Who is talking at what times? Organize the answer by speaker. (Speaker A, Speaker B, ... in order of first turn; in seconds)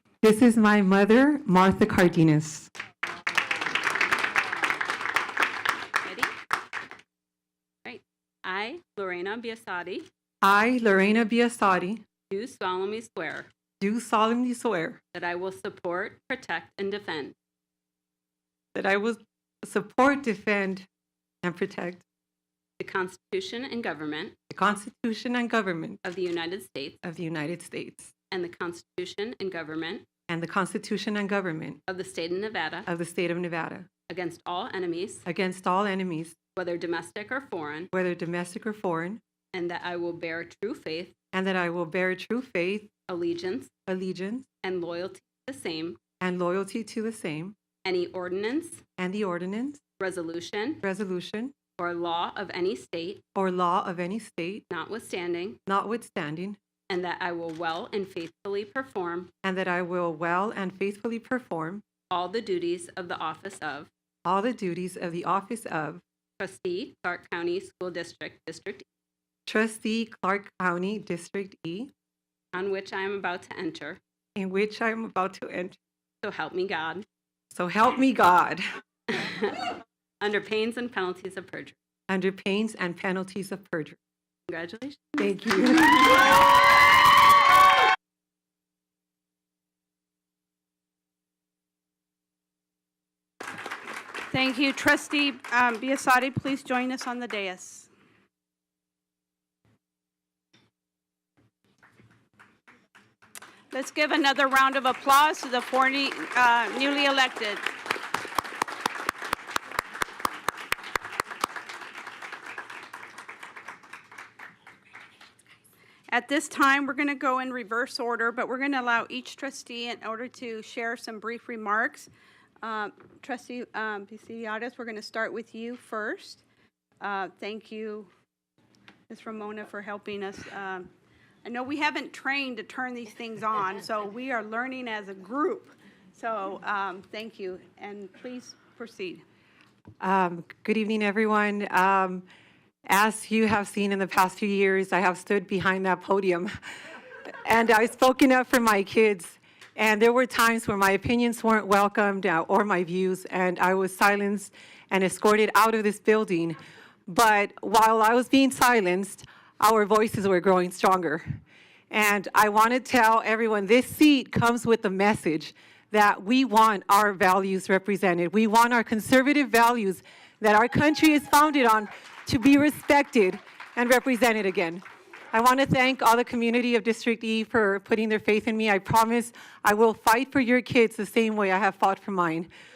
Speaker A: 0.2-2.7, 10.4-12.0, 13.8-15.0, 18.7-20.9, 21.4-22.0, 24.5-26.0, 27.0-28.1, 30.3-31.8, 32.9-33.9, 35.2-36.4, 37.9-39.2, 41.3-43.0, 43.9-44.5, 46.2-47.5, 49.0-49.8, 50.8-51.6, 53.3-54.6, 55.7-56.6, 59.4-61.8, 64.2-66.0, 69.5-71.9, 74.3-75.8, 77.5-78.6, 82.1-84.0, 85.2-86.1, 140.0-142.2, 142.8-146.5, 147.4-161.2, 161.9-182.5
Speaker B: 6.0-6.3, 7.8-10.1, 12.3-13.5, 15.1-17.3, 22.8-24.4, 26.0-27.0, 28.3-30.0, 31.9-32.9, 34.1-35.2, 36.5-37.9, 39.5-41.2, 43.1-43.8, 44.6-46.0, 47.8-48.8, 50.0-50.8, 51.8-53.2, 54.7-55.6, 56.9-59.3, 62.1-63.9, 66.4-68.8, 72.5-74.0, 76.2-77.0, 79.1-81.8, 84.5-86.2
Speaker C: 94.3-97.9, 103.7-107.7, 116.1-122.1, 122.6-126.4, 127.0-128.1, 129.1-130.9, 131.4-139.2